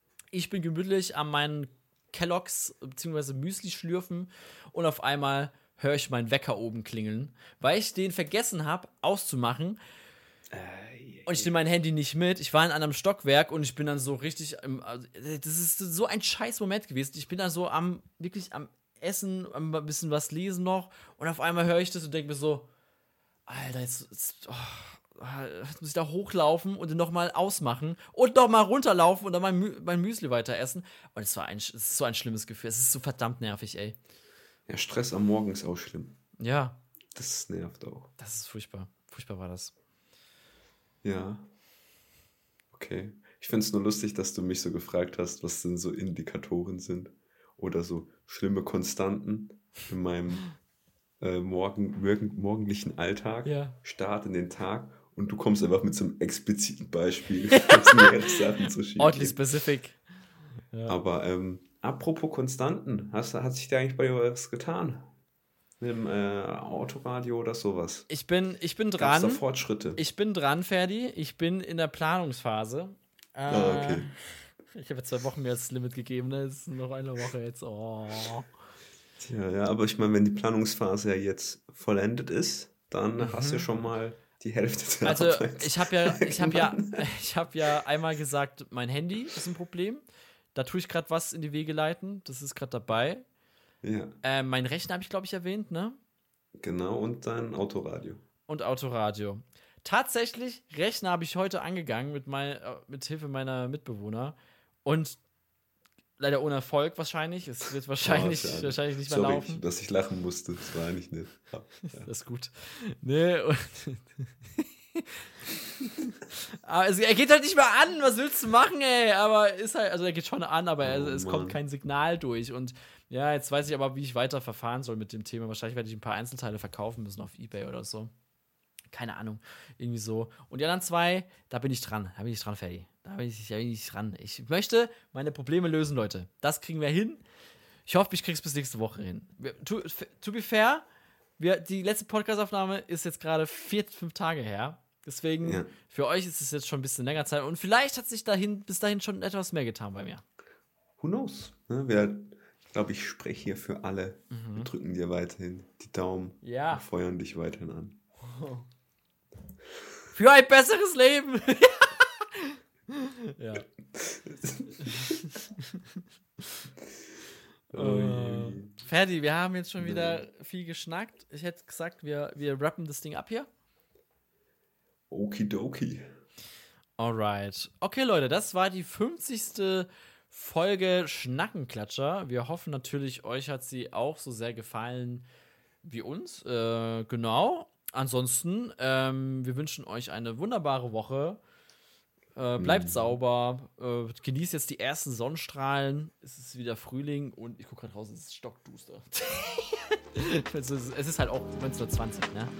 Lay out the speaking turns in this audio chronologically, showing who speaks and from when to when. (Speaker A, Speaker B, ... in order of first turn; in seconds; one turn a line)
Speaker A: 0.3-9.8
Speaker B: 10.5-11.5
Speaker A: 11.2-22.7
Speaker A: 23.5-34.0
Speaker B: 34.7-36.2
Speaker A: 36.4-36.8
Speaker B: 37.1-38.1
Speaker A: 38.2-39.7
Speaker B: 41.0-41.5
Speaker B: 42.7-50.5
Speaker B: 51.2-59.4
Speaker A: 53.4-53.8
Speaker A: 57.5-58.0
Speaker A: 59.0-60.0
Speaker A: 60.7-61.0
Speaker B: 60.9-65.1
Speaker B: 65.8-68.1
Speaker A: 68.1-69.4
Speaker B: 69.0-70.0
Speaker A: 70.0-74.2
Speaker B: 73.5-74.1
Speaker A: 74.7-78.5
Speaker B: 79.2-87.1
Speaker A: 83.2-83.7
Speaker A: 85.0-90.0
Speaker A: 90.5-93.2
Speaker B: 93.8-94.1
Speaker A: 94.2-96.0
Speaker B: 96.6-98.2
Speaker A: 98.5-105.2
Speaker A: 106.2-109.6
Speaker B: 108.0-112.1
Speaker A: 111.9-115.3
Speaker A: 115.9-128.1
Speaker B: 120.8-121.6
Speaker A: 128.9-137.2
Speaker A: 137.9-140.8
Speaker A: 141.4-150.2
Speaker B: 145.4-145.7
Speaker B: 151.0-158.0
Speaker A: 154.3-154.7
Speaker A: 156.4-156.8
Speaker A: 158.2-158.7
Speaker A: 160.1-163.7
Speaker B: 163.9-165.2
Speaker A: 164.8-166.0
Speaker B: 167.7-168.7
Speaker A: 167.7-173.5
Speaker B: 169.8-170.2
Speaker B: 175.1-176.0
Speaker A: 177.0-185.2
Speaker A: 185.8-191.4
Speaker A: 192.3-202.5
Speaker B: 192.6-193.1